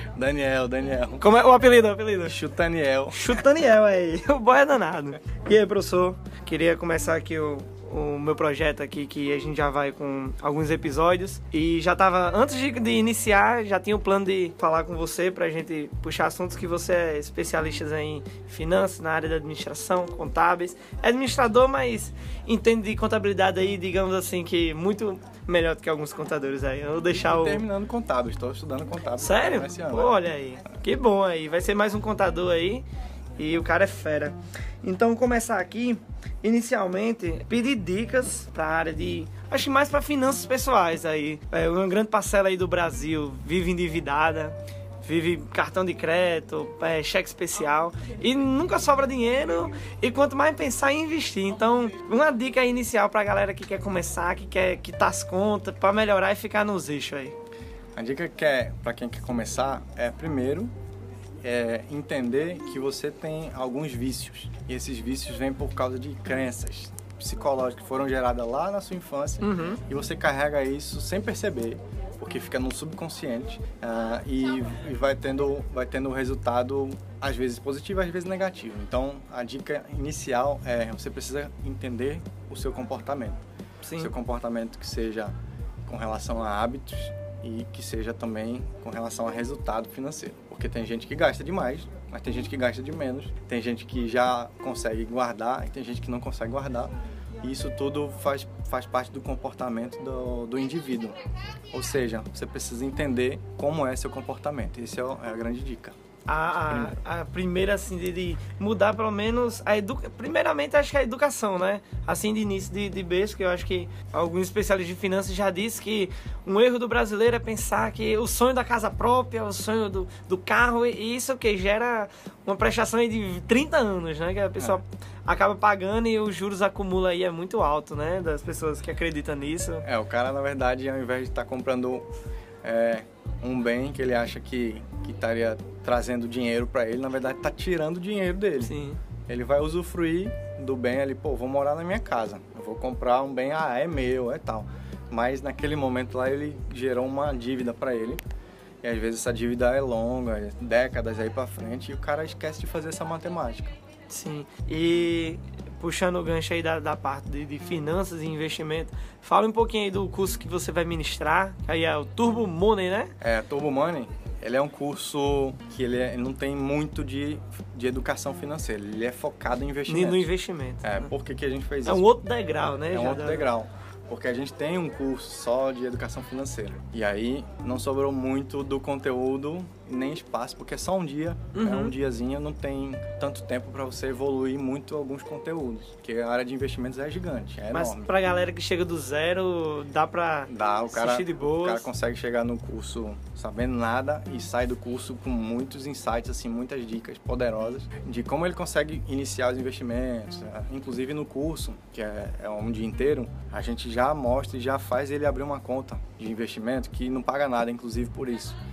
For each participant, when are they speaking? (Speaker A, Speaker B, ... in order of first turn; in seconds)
Speaker A: 0.1-1.3, 2.2-3.4, 27.2-30.2, 57.9-60.7, 61.4-83.4, 84.0-85.3, 85.8-101.1, 101.7-105.9, 106.7-107.0, 129.8-132.1, 132.6-138.7, 139.3-148.2, 148.8-153.7, 163.2-170.3, 170.8-172.2, 172.9-188.1, 190.5-208.6
Speaker B: 1.2-2.4, 3.1-27.6, 29.2-32.9, 33.4-57.4, 69.4-69.8, 83.8-84.1, 106.3-129.9, 138.6-139.0, 154.1-163.1, 169.9-171.1, 171.8-173.5, 181.5-181.9, 187.7-191.9